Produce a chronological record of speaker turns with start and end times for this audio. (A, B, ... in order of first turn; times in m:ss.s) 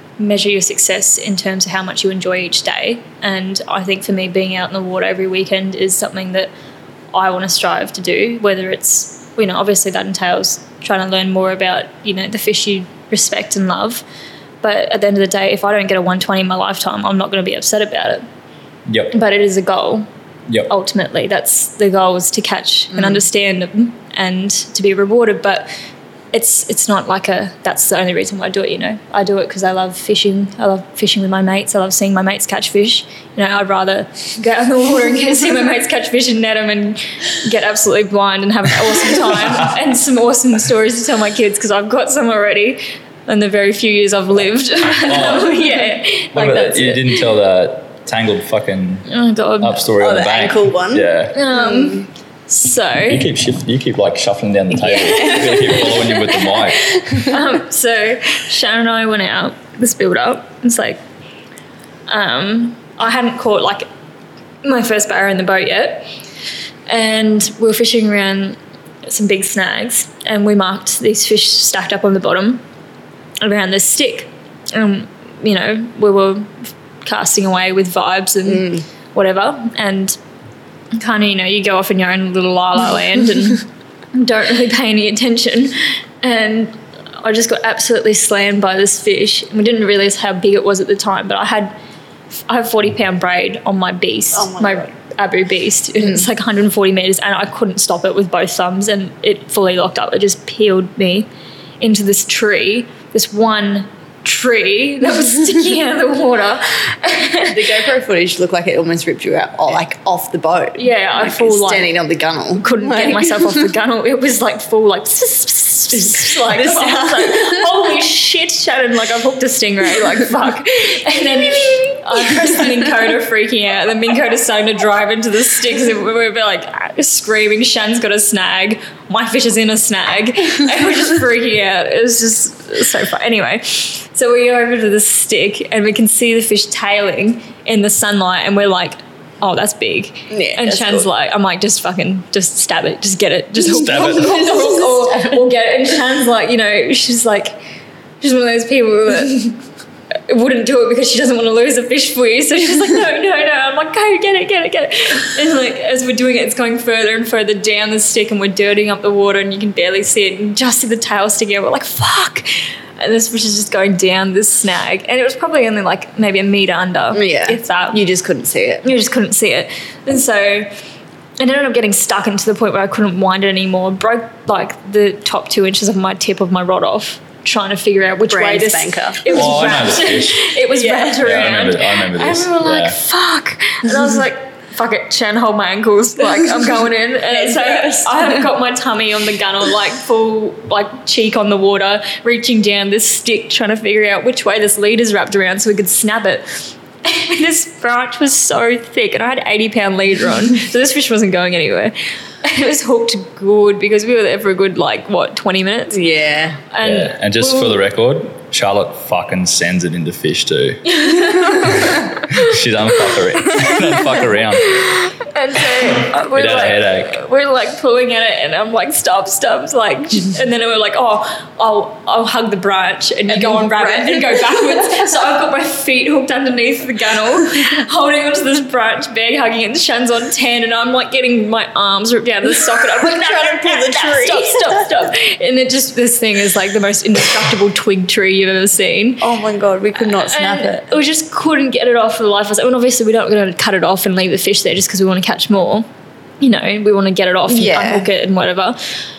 0:00.2-0:06.5 A
0:07.1-0:14.0 A
0:14.6-0:18.2 A
0:18.9-0:19.1 B
0:19.1-0:20.1 A
0:20.7-0:25.7 A
0:22.9-0:23.2 C
0:26.3-0:47.1 A
0:45.0-0:45.8 B
0:46.3-0:49.1 B
0:49.1-0:49.8 A
0:49.6-0:51.4 B
0:50.0-0:52.1 C
0:51.3-0:53.2 A
0:53.1-0:57.2 B
0:54.9-0:56.4 A
0:55.0-0:56.1 C
0:56.9-0:57.4 C
0:57.2-1:01.0 A
1:02.1-1:03.8 A
1:04.6-1:06.1 A
1:06.9-1:12.6 A
1:13.4-1:20.2 A
1:18.4-1:18.8 C
1:20.9-1:31.7 A
1:32.5-1:41.3 A
1:34.3-1:34.9 C
1:41.8-1:47.7 A
1:47.5-1:53.7 C
1:50.8-1:51.9 A
1:52.6-2:27.6 A
1:55.9-1:57.7 C
2:02.4-2:02.7 C
2:20.3-2:21.1 C
2:23.7-2:24.4 B
2:24.0-2:25.5 C
2:28.2-2:29.6 A
2:30.3-2:48.0 A
2:47.1-2:48.8 C
2:48.8-2:50.7 A
2:51.4-3:26.0 A
2:58.3-3:00.0 C
2:59.3-3:00.5 B
3:00.7-3:01.3 C
3:01.2-3:03.0 B
3:07.3-3:08.5 C
3:25.9-3:26.6 C
3:26.7-3:27.8 A
3:26.8-3:34.8 B
3:30.8-3:32.5 A
3:33.4-3:59.2 A
3:35.8-3:37.2 B
3:43.3-3:45.1 C
3:52.7-3:54.8 C
3:59.2-4:00.9 C
4:00.0-4:05.9 A
4:06.4-4:08.8 A
4:07.5-4:08.1 C